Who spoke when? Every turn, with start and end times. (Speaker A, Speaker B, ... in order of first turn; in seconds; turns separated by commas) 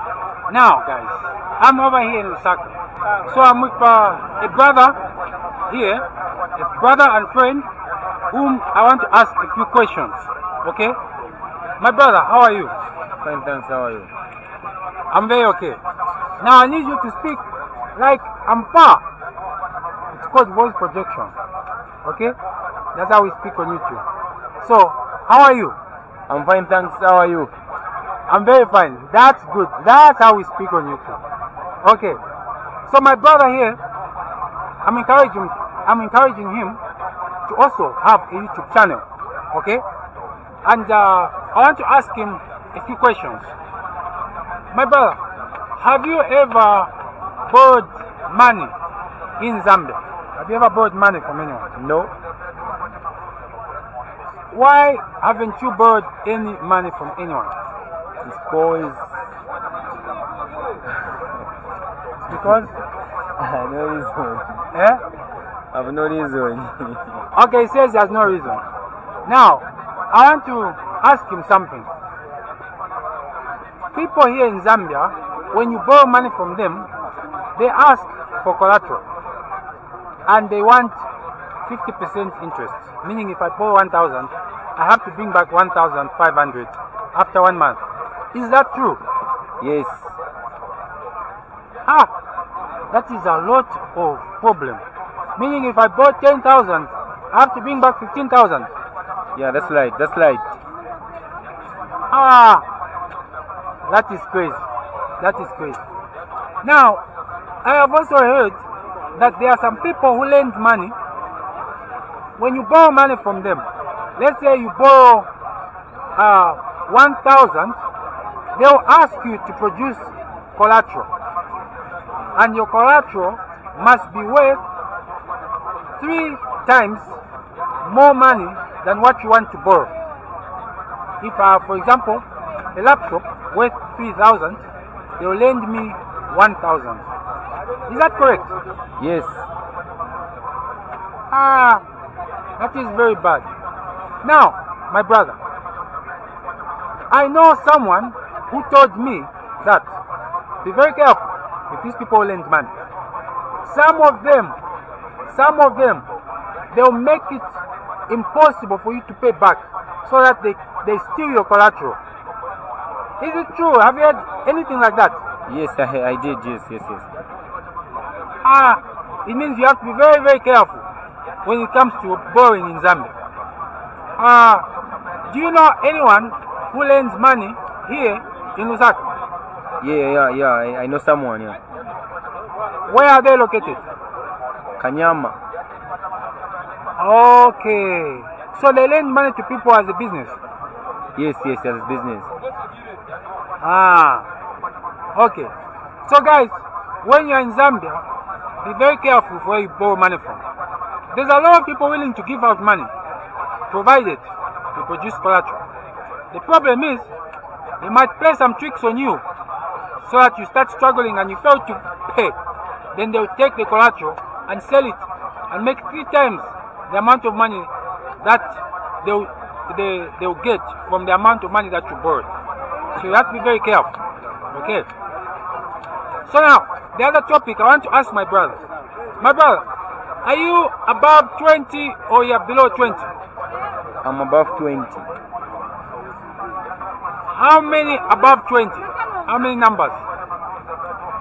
Speaker A: 0.5-5.0, Speaker A: 5.7-7.7, Speaker A: 8.3-11.0, Speaker A: 11.8-12.8, Speaker B: 13.2-14.1, Speaker A: 15.1-15.8, Speaker A: 16.4-17.4, Speaker A: 17.9-19.0, Speaker A: 20.1-21.3, Speaker A: 22.0-22.4, Speaker A: 22.9-24.1, Speaker A: 24.6-25.8, Speaker B: 26.3-27.5, Speaker A: 28.3-31.2, Speaker A: 31.8-32.2, Speaker A: 32.9-33.8, Speaker A: 34.8-36.8, Speaker A: 37.5-39.8, Speaker A: 40.6-43.5, Speaker A: 44.7-45.2, Speaker A: 45.8-46.9, Speaker A: 47.5-48.8, Speaker A: 49.4-51.7, Speaker B: 51.8-52.1, Speaker A: 54.5-57.5, Speaker B: 58.2-59.3, Speaker B: 60.9-61.4, Speaker A: 62.3-62.7, Speaker B: 62.3-64.7, Speaker A: 64.7-65.0, Speaker B: 65.7-67.2, Speaker A: 67.3-68.7, Speaker A: 69.2-71.9, Speaker A: 73.9-76.9, Speaker A: 77.6-79.0, Speaker A: 80.3-81.0, Speaker A: 81.7-87.8, Speaker A: 88.3-89.0, Speaker B: 89.6-90.2, Speaker A: 91.8-92.1, Speaker A: 92.9-94.8, Speaker A: 95.4-98.7, Speaker B: 99.3-100.6, Speaker A: 102.1-102.7, Speaker A: 103.8-104.6, Speaker A: 105.2-105.8, Speaker A: 106.6-107.0, Speaker A: 107.6-108.6, Speaker A: 109.1-111.0, Speaker A: 112.4-115.3, Speaker A: 116.2-117.8, Speaker A: 118.5-121.1, Speaker A: 122.3-124.6, Speaker A: 126.0-127.2, Speaker A: 127.8-129.9, Speaker A: 131.2-134.7, Speaker A: 135.2-137.1, Speaker A: 137.9-138.6, Speaker B: 139.0-139.5, Speaker A: 141.3-141.8, Speaker A: 142.6-143.5, Speaker A: 144.2-145.4, Speaker A: 147.1-149.9, Speaker A: 150.6-152.7, Speaker A: 153.6-154.6, Speaker A: 155.3-156.1, Speaker A: 156.7-162.0, Speaker A: 163.2-165.2, Speaker B: 165.5-167.1, Speaker A: 168.4-170.9, Speaker A: 171.4-173.1, Speaker A: 174.2-174.7, Speaker A: 175.3-179.1, Speaker B: 179.8-181.6, Speaker A: 182.9-183.8, Speaker B: 184.8-185.4, Speaker A: 187.0-190.4, Speaker B: 191.2-192.3, Speaker A: 193.6-194.3, Speaker A: 195.1-195.5, Speaker A: 196.0-198.1, Speaker A: 198.6-200.4, Speaker A: 201.1-202.9, Speaker A: 203.7-205.6, Speaker A: 206.3-207.1, Speaker A: 207.8-209.2, Speaker A: 210.0-212.4, Speaker A: 212.9-222.3, Speaker A: 222.9-223.9, Speaker A: 224.5-224.9, Speaker A: 226.2-228.6, Speaker A: 229.2-229.7, Speaker A: 230.2-233.1, Speaker B: 234.0-235.1, Speaker A: 237.3-240.0